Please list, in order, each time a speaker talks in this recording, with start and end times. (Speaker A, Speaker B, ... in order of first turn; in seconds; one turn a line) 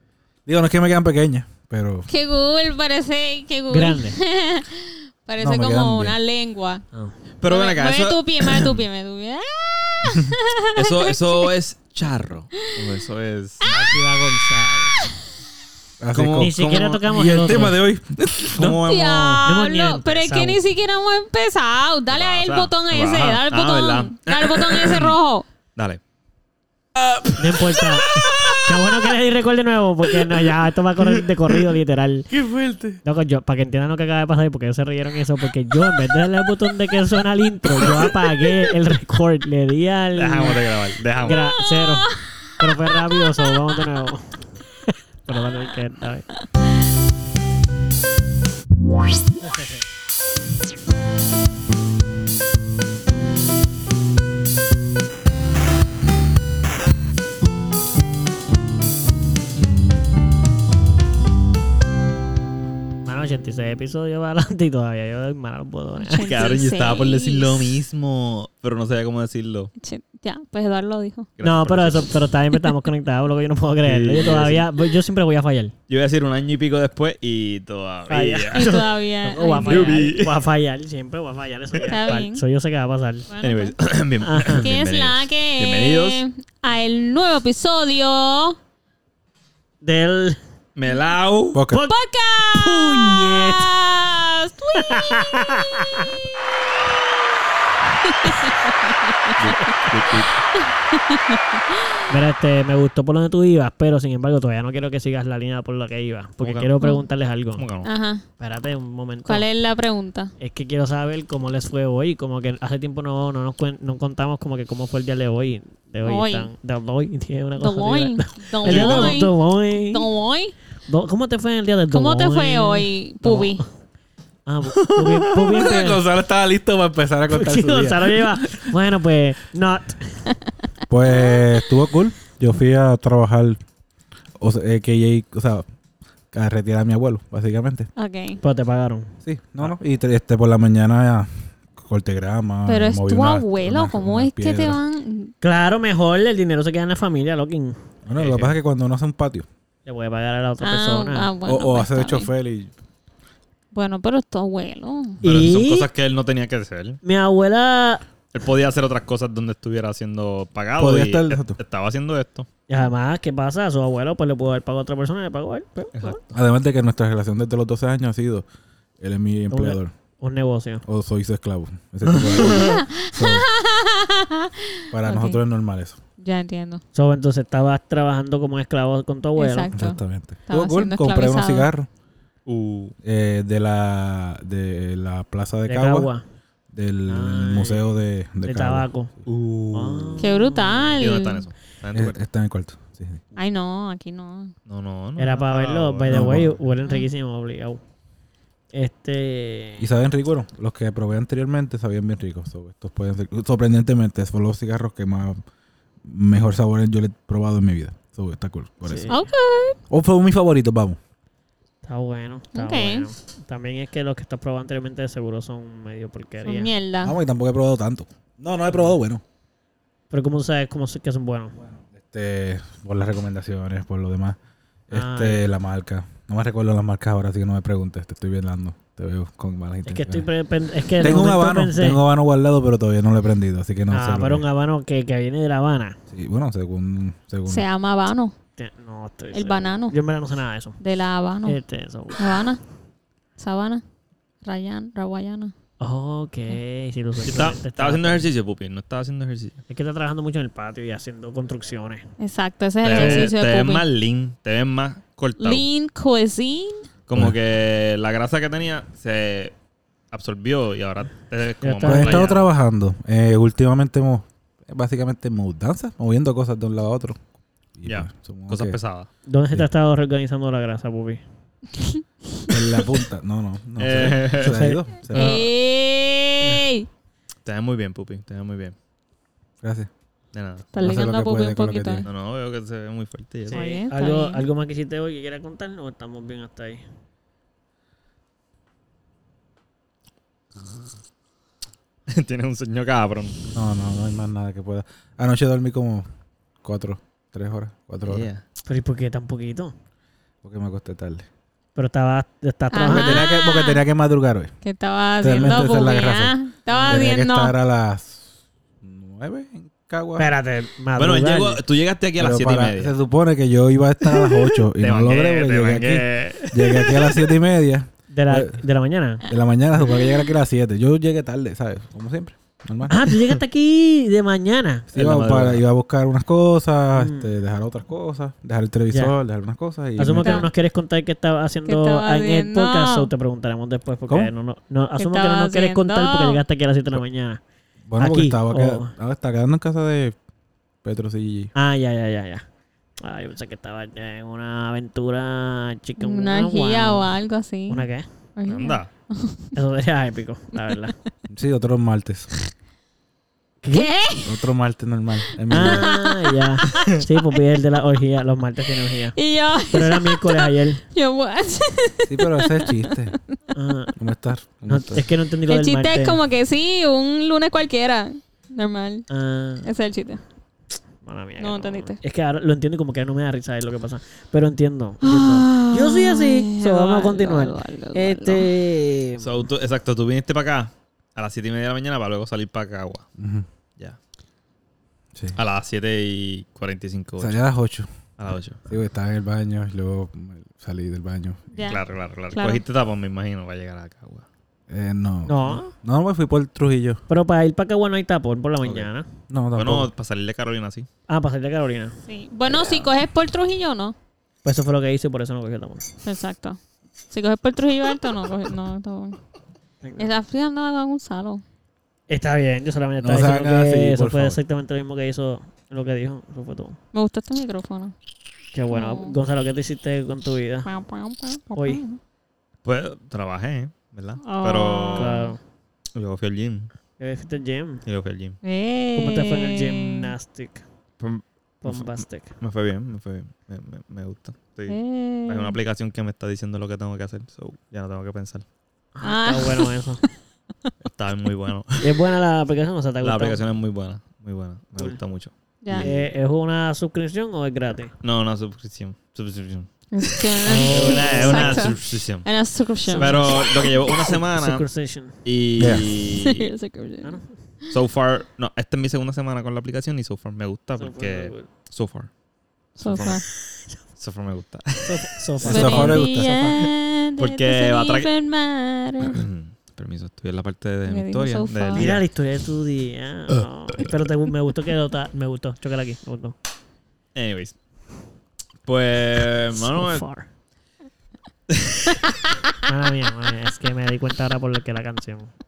Speaker A: 0.5-2.1
Speaker B: 2.1-6.8
Speaker C: 3.7-4.2
Speaker A: 5.4-6.2
Speaker D: 7.4-8.8
Speaker B: 7.5-11.2
Speaker D: 10.8-13.7
Speaker B: 13.6-13.9
Speaker C: 13.7-15.0
Speaker A: 16.0-18.8
Speaker D: 16.1-17.7
Speaker C: 16.4-17.8
Speaker D: 18.5-19.5
Speaker B: 18.8-25.4
Speaker C: 19.4-20.6
Speaker D: 22.1-25.2
Speaker C: 27.4-32.3
Speaker D: 28.1-28.6
Speaker A: 32.5-33.0
Speaker C: 33.0-40.6
Speaker D: 40.1-41.4
Speaker C: 41.2-46.3
Speaker B: 41.7-43.2
Speaker C: 49.4-49.8
Speaker C: 63.0-66.3
Speaker B: 66.0-67.7
Speaker D: 66.2-69.7
Speaker B: 69.8-71.3
Speaker D: 71.4-72.1
Speaker C: 71.4-75.7
Speaker D: 73.8-74.7
Speaker D: 75.9-78.9
Speaker C: 78.1-83.3
Speaker B: 78.5-80.1
Speaker D: 79.5-80.4
Speaker B: 81.8-82.4
Speaker B: 83.3-83.8
Speaker D: 83.4-86.2
Speaker C: 84.2-84.6
Speaker B: 84.5-88.6
Speaker C: 89.8-90.4
Speaker D: 90.8-91.6
Speaker A: 91.5-91.8
Speaker C: 91.7-93.8
Speaker B: 91.8-95.1
Speaker C: 94.8-96.1
Speaker B: 98.1-99.4
Speaker D: 99.4-100.3
Speaker B: 100.8-102.0
Speaker C: 102.1-107.7
Speaker D: 106.4-106.7
Speaker D: 107.6-107.9
Speaker B: 107.8-108.2
Speaker C: 108.4-109.5
Speaker B: 109.2-110.3
Speaker C: 110.4-120.1
Speaker B: 116.0-116.5
Speaker B: 117.6-120.5
Speaker D: 118.7-119.2
Speaker C: 120.9-123.7
Speaker B: 121.9-123.7
Speaker C: 124.5-126.0
Speaker D: 124.8-125.5
Speaker A: 125.5-128.7
Speaker C: 127.3-130.3
Speaker A: 130.9-133.6
Speaker B: 131.1-131.5
Speaker A: 134.4-135.7
Speaker A: 136.3-137.9
Speaker B: 137.9-138.4
Speaker C: 138.4-139.2
Speaker A: 139.2-144.8
Speaker B: 142.7-145.3
Speaker C: 145.4-147.8
Speaker A: 148.1-149.5
Speaker D: 148.2-148.5
Speaker C: 149.8-151.3
Speaker B: 150.6-152.3
Speaker A: 151.4-152.7
Speaker B: 153.7-155.2
Speaker C: 155.2-155.9
Speaker D: 155.2-157.0
Speaker C: 157.0-158.1
Speaker D: 158.3-162.5
Speaker A: 160.8-161.6
Speaker C: 162.7-166.2
Speaker D: 165.9-166.4
Speaker A: 166.3-168.4
Speaker A: 169.0-169.9
Speaker C: 169.5-170.8
Speaker A: 170.8-173.5
Speaker D: 172.1-172.8
Speaker B: 172.6-175.4
Speaker A: 174.9-176.0
Speaker B: 176.2-176.8
Speaker C: 176.9-179.7
Speaker B: 179.3-181.7
Speaker A: 179.7-181.9
Speaker D: 182.4-182.9
Speaker A: 183.0-186.1
Speaker C: 185.7-186.2
Speaker A: 186.7-188.9
Speaker C: 187.1-189.1
Speaker D: 189.2-190.3
Speaker C: 189.7-191.0
Speaker B: 190.2-191.4
Speaker D: 191.0-192.2
Speaker A: 191.9-193.2
Speaker B: 193.3-194.5
Speaker D: 194.7-196.6
Speaker C: 195.2-197.8
Speaker A: 196.1-196.6
Speaker C: 198.7-199.9
Speaker A: 199.8-205.4
Speaker A: 206.0-209.1
Speaker C: 208.8-209.2
Speaker B: 209.1-209.8
Speaker A: 209.9-211.0
Speaker C: 211.8-216.7
Speaker B: 212.5-213.1
Speaker B: 216.4-217.2
Speaker A: 217.0-219.2
Speaker C: 220.1-221.6
Speaker A: 221.6-224.4
Speaker A: 224.9-230.3
Speaker C: 224.9-225.5
Speaker C: 229.8-232.0
Speaker A: 230.9-234.4
Speaker C: 233.9-236.0
Speaker A: 236.1-237.7
Speaker B: 237.5-238.3
Speaker C: 238.6-240.8
Speaker B: 239.3-240.0
Speaker B: 240.8-241.6
Speaker C: 241.4-242.4
Speaker B: 242.2-242.6
Speaker B: 243.4-243.8
Speaker B: 244.4-245.5
Speaker C: 245.8-248.3
Speaker D: 247.2-249.6
Speaker C: 249.7-252.1
Speaker B: 252.2-253.8
Speaker D: 252.8-255.7
Speaker C: 252.9-253.3
Speaker B: 255.4-256.8
Speaker D: 257.1-259.5
Speaker D: 260.1-262.3
Speaker C: 261.6-262.4
Speaker A: 261.8-267.2
Speaker A: 267.8-268.8
Speaker D: 267.9-269.1
Speaker C: 269.3-271.2
Speaker A: 272.5-275.5
Speaker D: 273.8-274.6
Speaker C: 274.4-275.4
Speaker B: 275.1-276.9
Speaker D: 277.4-278.7
Speaker A: 279.6-279.9
Speaker D: 280.3-280.7
Speaker B: 280.7-282.1
Speaker A: 280.8-282.1
Speaker D: 282.1-283.7
Speaker C: 283.5-286.8
Speaker B: 283.5-284.4
Speaker D: 292.1-293.4
Speaker A: 293.5-296.1
Speaker A: 296.6-298.3
Speaker D: 298.1-298.4
Speaker C: 298.7-299.7
Speaker A: 300.4-301.3
Speaker C: 301.8-303.2
Speaker B: 302.7-303.8
Speaker A: 302.8-304.5
Speaker B: 304.6-307.5
Speaker A: 305.2-308.2
Speaker C: 306.7-307.0
Speaker A: 308.8-310.3
Speaker C: 310.2-311.6
Speaker D: 311.0-312.9
Speaker A: 312.2-318.6
Speaker D: 314.3-317.2
Speaker C: 318.1-319.2
Speaker A: 319.2-323.3
Speaker C: 322.9-324.9
Speaker A: 324.9-330.4
Speaker D: 324.9-325.6
Speaker C: 326.9-327.3
Speaker C: 330.0-337.4
Speaker B: 330.2-330.5
Speaker B: 331.7-333.1
Speaker B: 335.0-336.4
Speaker A: 337.9-340.2
Speaker C: 338.0-338.9
Speaker A: 340.8-341.5
Speaker C: 341.6-342.4
Speaker C: 343.0-347.1
Speaker B: 346.0-349.5
Speaker C: 347.7-348.1
Speaker D: 348.5-348.9
Speaker C: 349.6-350.9
Speaker A: 351.3-352.3
Speaker C: 353.6-353.9
Speaker B: 353.7-354.4
Speaker A: 354.2-355.9
Speaker C: 355.5-359.2
Speaker B: 355.5-357.0
Speaker B: 359.1-363.0
Speaker C: 359.7-360.8
Speaker A: 362.1-363.2
Speaker C: 363.5-363.9
Speaker A: 364.0-365.1
Speaker C: 364.7-366.2
Speaker B: 365.5-369.1
Speaker C: 369.1-369.7
Speaker B: 369.6-370.2
Speaker C: 371.0-379.4
Speaker B: 371.4-372.0
Speaker B: 375.0-378.5
Speaker D: 379.2-383.1
Speaker A: 383.2-383.4
Speaker D: 385.4-387.4
Speaker A: 387.2-387.9
Speaker D: 388.2-388.6
Speaker A: 388.7-391.4
Speaker B: 391.5-391.8
Speaker D: 391.6-394.2
Speaker B: 392.3-392.6
Speaker A: 394.7-397.0
Speaker C: 395.2-395.7
Speaker C: 397.1-399.1
Speaker D: 398.6-398.9
Speaker A: 399.3-399.9
Speaker D: 399.6-400.9
Speaker C: 401.1-402.0
Speaker B: 402.1-403.9
Speaker C: 404.4-405.8
Speaker B: 406.0-406.6
Speaker B: 407.1-409.2
Speaker C: 409.8-410.1
Speaker B: 410.0-411.4
Speaker C: 412.1-416.8
Speaker A: 413.0-414.4
Speaker B: 416.9-417.9
Speaker C: 418.5-420.7
Speaker B: 418.7-419.1
Speaker B: 420.7-422.0
Speaker C: 421.6-421.8
Speaker D: 422.6-425.2
Speaker B: 424.2-425.3
Speaker C: 424.9-425.4
Speaker D: 425.9-426.7
Speaker C: 427.0-427.8
Speaker D: 427.9-428.4
Speaker B: 428.4-430.1
Speaker C: 428.9-430.6
Speaker D: 431.0-438.4
Speaker C: 431.6-432.3
Speaker B: 434.7-435.6
Speaker C: 438.9-440.0
Speaker B: 439.0-439.7
Speaker D: 440.8-441.9
Speaker C: 441.8-443.4
Speaker D: 443.0-445.9
Speaker B: 445.6-445.9
Speaker C: 445.8-447.9
Speaker D: 448.0-449.7
Speaker B: 449.9-453.7
Speaker C: 450.4-451.8
Speaker D: 450.7-452.3
Speaker C: 452.9-453.4
Speaker D: 452.9-454.6
Speaker C: 454.0-455.1
Speaker D: 455.2-456.5
Speaker A: 455.6-455.9
Speaker B: 456.2-457.2
Speaker C: 457.0-457.3
Speaker D: 457.7-462.1
Speaker C: 460.8-461.5
Speaker D: 462.8-463.3
Speaker B: 462.8-463.2
Speaker D: 464.0-465.9
Speaker C: 464.8-466.6
Speaker A: 465.4-466.4
Speaker B: 465.4-469.2
Speaker D: 467.2-468.1
Speaker D: 469.1-472.0
Speaker B: 470.9-471.9
Speaker C: 471.7-476.4
Speaker D: 477.1-477.6
Speaker D: 478.7-480.1
Speaker C: 479.5-480.3
Speaker D: 481.5-482.0
Speaker C: 482.6-485.3